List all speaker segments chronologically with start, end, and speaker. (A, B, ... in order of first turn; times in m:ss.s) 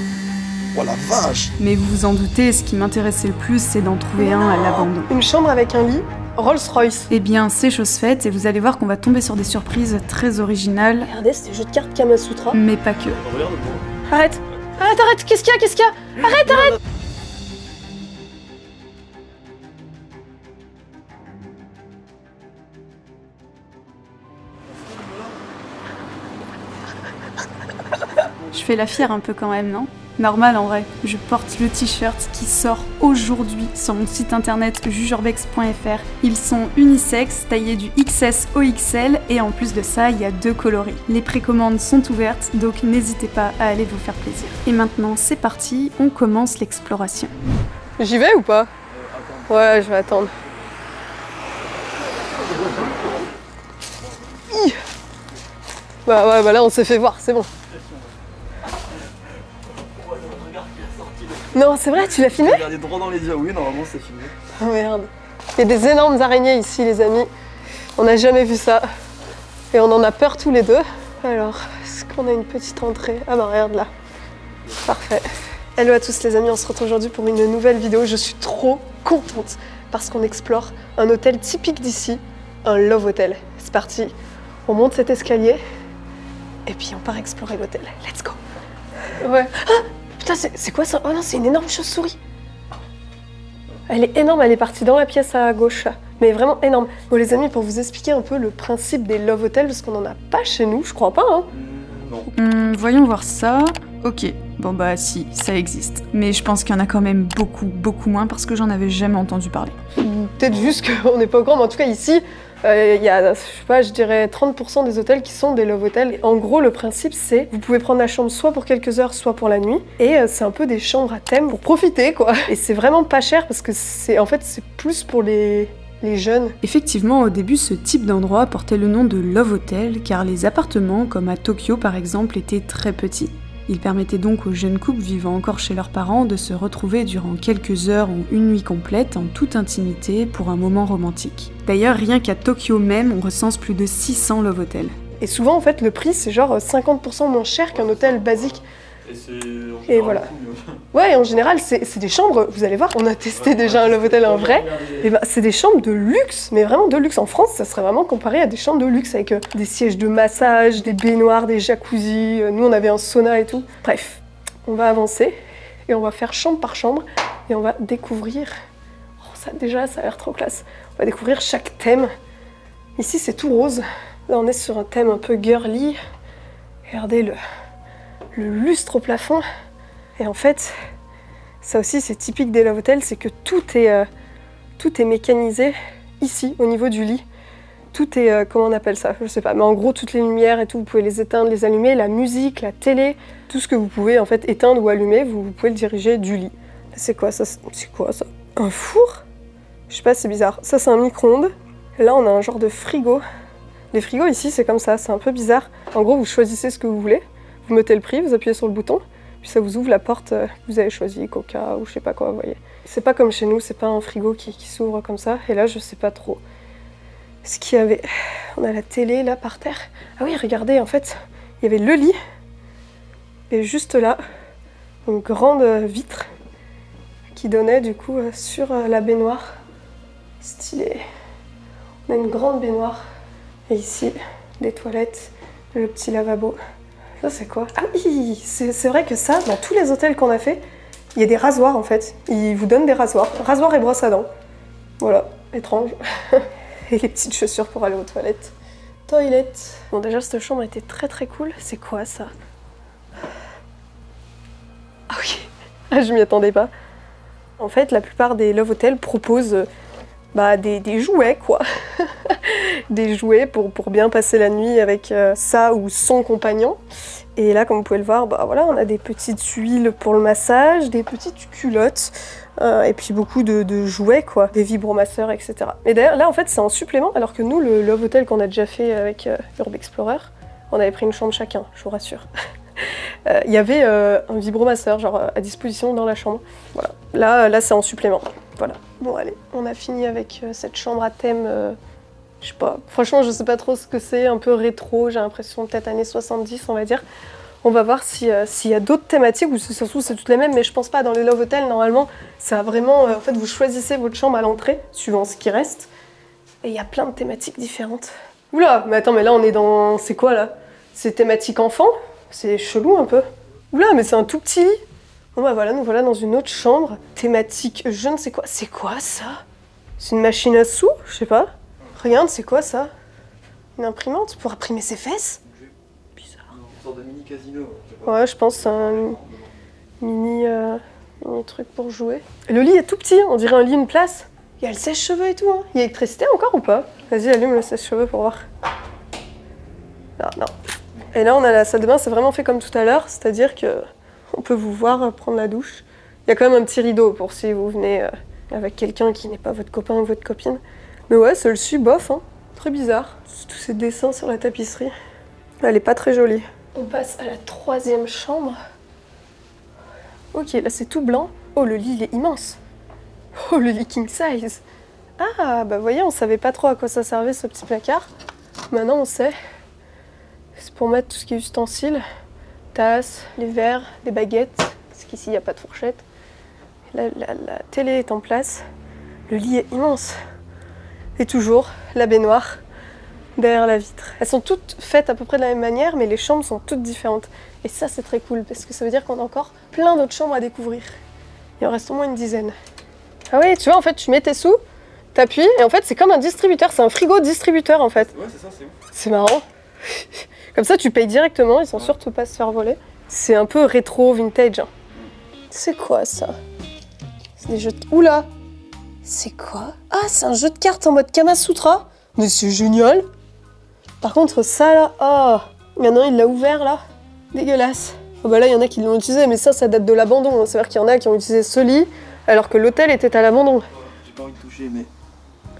0:01.2-0:05.1 A
0:04.2-0:07.1 B
0:07.1-0:11.1 A
0:11.0-0:12.6 B
0:12.5-0:13.2 A
0:13.2-0:13.8 C
0:14.1-0:16.8 B
0:28.5-0:47.3 A
0:48.0-0:48.7 B
0:48.9-0:50.7 C
0:49.5-0:50.3 B
0:52.3-0:53.2 C
0:54.5-0:54.8 B
0:56.0-0:57.5 B
1:00.0-1:04.3 C
1:01.5-1:02.6 B
1:04.6-1:07.3 B
1:08.0-1:08.8 B
1:09.7-1:13.9 B
1:14.8-1:24.1 B
1:24.6-1:25.6 B
1:26.6-1:28.4 B
1:29.2-1:32.2 B
1:33.9-1:41.5 B
1:41.5-1:42.3 C
1:42.3-1:49.8 A
1:50.0-2:06.6 B
2:06.6-2:25.0 A
2:25.2-2:28.6 B
2:27.7-2:28.5 C
2:29.0-2:30.8 C
2:29.9-2:30.3 B
2:30.9-2:48.5 B
2:33.4-2:35.0 C
2:49.2-2:52.1 B
2:53.0-2:56.0 B
2:56.9-2:57.4 B
2:58.3-2:59.4 B
3:00.2-3:00.7 B
3:01.6-3:04.0 B
3:04.8-3:07.2 B
3:07.9-3:19.2 B
3:19.9-3:23.2 B
3:23.9-3:36.4 B
3:37.4-3:42.2 B
3:43.5-3:44.2 B
3:45.0-3:46.3 B
3:47.3-3:49.5 B
3:50.4-3:51.0 B
3:52.1-3:53.0 B
3:53.7-3:56.6 B
3:57.2-4:00.6 B
4:01.1-4:04.3 B
4:05.0-4:08.5 B
4:09.1-4:12.3 B
4:15.1-4:16.7 B
4:17.6-4:19.7 B
4:20.3-4:26.8 B
4:27.4-4:42.3 B
4:42.8-4:51.8 B
4:52.4-4:57.0 B
4:57.6-5:05.9 B
5:06.6-5:14.8 B
5:15.3-5:19.4 B
5:20.0-5:22.9 B
5:23.8-5:25.4 B
5:26.5-5:29.5 C
5:28.0-5:29.2 B
5:30.0-5:38.4 B
5:40.2-5:40.5 B
5:41.1-5:54.9 B
5:55.6-5:58.6 B
6:00.3-6:02.6 B
6:03.4-6:04.6 B
6:05.2-6:08.1 B
6:08.7-6:09.3 B
6:10.6-6:12.0 B
6:12.7-6:16.0 B
6:16.9-6:18.6 B
6:19.3-6:20.1 B
6:21.2-6:22.6 B
6:23.4-6:30.9 B
6:31.6-6:32.5 B
6:33.3-6:34.6 B
6:35.1-6:38.1 B
6:38.0-6:38.8 C
6:38.9-6:44.7 B
6:45.5-6:46.3 B
6:47.4-6:48.3 B
6:49.0-6:53.0 B
6:54.0-6:56.8 B
6:57.3-7:03.6 B
7:04.0-7:04.9 C